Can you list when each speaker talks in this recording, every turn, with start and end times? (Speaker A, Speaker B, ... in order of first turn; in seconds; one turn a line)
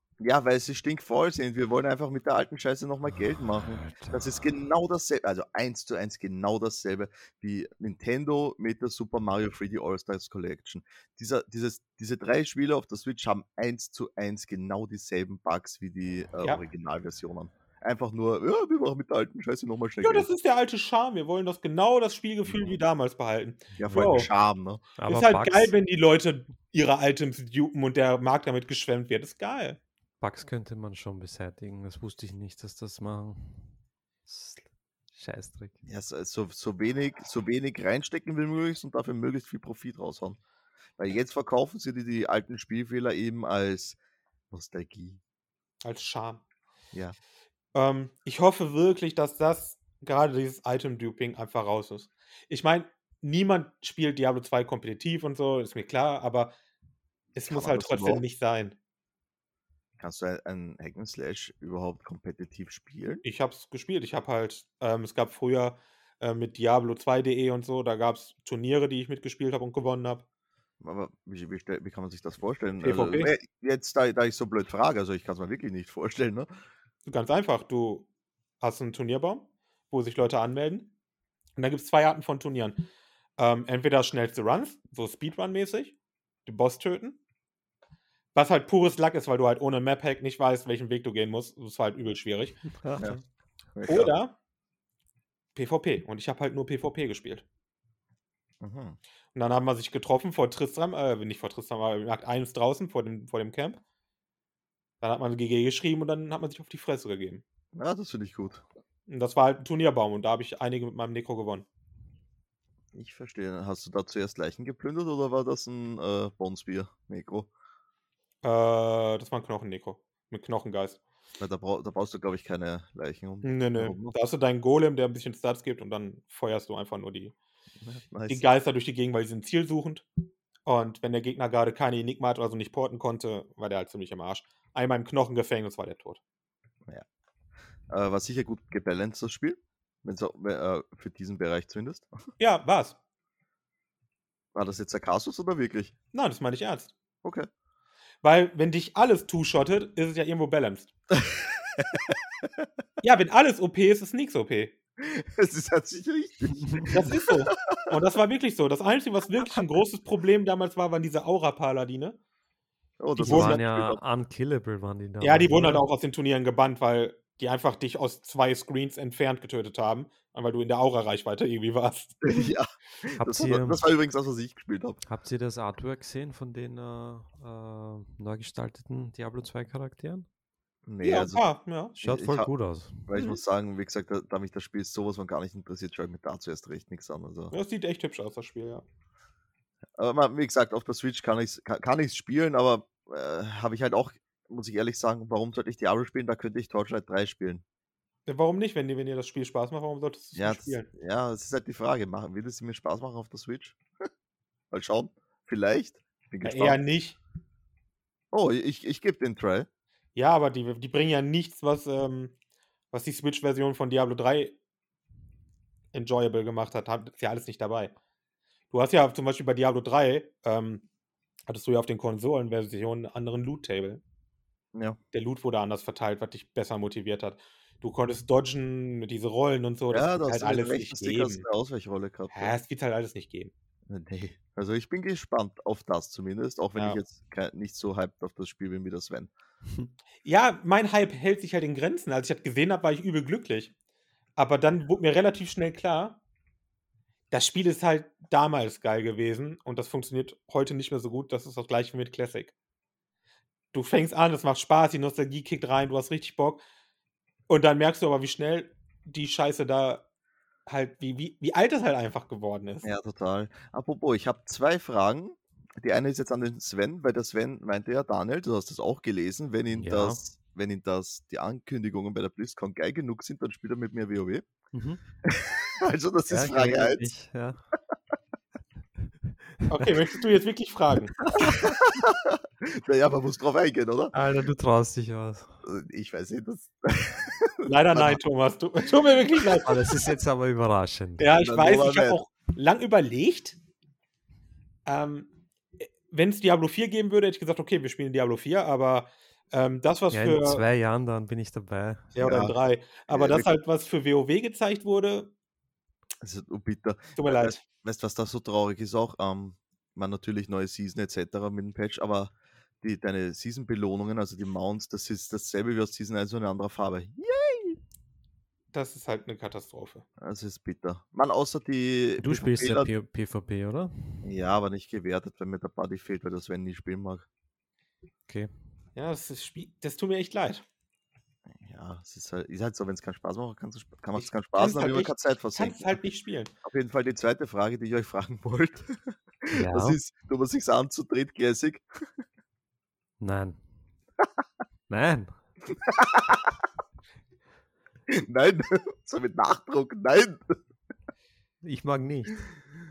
Speaker A: 0.2-20.3
Speaker B: 3.6-4.5
Speaker C: 20.0-24.3
Speaker A: 23.8-24.8
Speaker B: 25.0-25.7
Speaker C: 25.0-29.8
Speaker B: 30.2-33.7
Speaker B: 34.2-35.8
Speaker A: 35.8-40.4
Speaker A: 41.0-44.0
Speaker A: 44.5-45.2
Speaker C: 45.8-46.4
Speaker C: 47.7-56.5
Speaker C: 57.3-58.8
Speaker A: 57.5-58.2
Speaker A: 60.0-63.2
Speaker C: 63.2-70.2
Speaker A: 70.8-76.5
Speaker C: 72.8-73.3
Speaker C: 77.0-78.1
Speaker C: 78.6-80.9
Speaker C: 81.6-87.2
Speaker C: 88.3-92.6
Speaker B: 92.8-93.2
Speaker A: 93.7-94.1
Speaker C: 93.9-94.3
Speaker C: 95.5-97.4
Speaker A: 98.6-99.0
Speaker C: 99.3-103.8
Speaker C: 105.0-107.4
Speaker A: 107.7-108.6
Speaker C: 109.1-111.7
Speaker A: 112.9-117.5
Speaker C: 118.4-121.0
Speaker A: 121.4-124.1
Speaker C: 123.4-127.3
Speaker A: 127.8-128.4
Speaker C: 128.3-130.1
Speaker C: 130.6-136.2
Speaker A: 137.9-142.1
Speaker C: 142.4-143.0
Speaker A: 144.5-145.9
Speaker C: 146.1-146.9
Speaker A: 147.2-147.5
Speaker C: 148.2-150.9
Speaker A: 151.2-152.7
Speaker C: 153.0-154.7
Speaker A: 155.0-157.9
Speaker B: 156.6-156.9
Speaker C: 156.9-162.2
Speaker A: 163.0-164.0
Speaker C: 163.2-163.6
Speaker B: 163.2-165.8
Speaker C: 165.2-172.5
Speaker A: 172.2-175.0
Speaker B: 173.2-173.8
Speaker B: 175.1-180.2
Speaker A: 180.8-181.4
Speaker C: 181.0-181.9
Speaker A: 182.0-182.5
Speaker B: 182.0-183.2
Speaker A: 183.1-187.5
Speaker C: 187.5-188.8
Speaker A: 190.0-197.6
Speaker C: 198.3-200.9
Speaker A: 200.3-203.8
Speaker A: 204.7-206.8
Speaker C: 206.4-207.2
Speaker A: 208.3-209.7
Speaker C: 210.1-212.3
Speaker C: 212.9-214.6
Speaker C: 215.9-217.9
Speaker C: 218.7-220.8
Speaker C: 221.5-224.0
Speaker C: 225.1-231.4
Speaker A: 229.9-232.5
Speaker C: 232.3-233.5
Speaker A: 233.9-239.3
Speaker C: 240.2-243.7
Speaker C: 244.4-246.2
Speaker C: 247.3-252.5
Speaker C: 253.7-256.6
Speaker C: 257.5-260.1
Speaker C: 260.7-262.9
Speaker A: 262.8-274.4
Speaker B: 269.7-270.2
Speaker B: 274.7-275.0
Speaker A: 275.2-277.1
Speaker B: 276.3-277.6
Speaker C: 279.7-281.2
Speaker A: 281.6-284.1
Speaker B: 284.1-285.5
Speaker A: 285.6-288.2
Speaker C: 287.6-289.9
Speaker B: 289.6-291.2
Speaker C: 291.2-293.6
Speaker A: 291.4-292.2
Speaker C: 294.9-300.6
Speaker B: 300.1-302.1
Speaker C: 302.1-305.3
Speaker A: 302.2-302.5
Speaker A: 303.1-303.5
Speaker A: 306.2-317.8
Speaker C: 307.1-307.6
Speaker C: 318.7-320.1
Speaker A: 320.2-322.9
Speaker B: 322.2-324.2
Speaker A: 324.2-327.2
Speaker C: 328.9-330.6
Speaker A: 331.5-335.9
Speaker C: 334.1-336.5
Speaker A: 336.6-341.8
Speaker B: 339.5-340.0
Speaker B: 343.2-343.6
Speaker B: 344.9-345.3
Speaker A: 345.8-346.5
Speaker A: 348.1-350.6
Speaker B: 351.6-352.4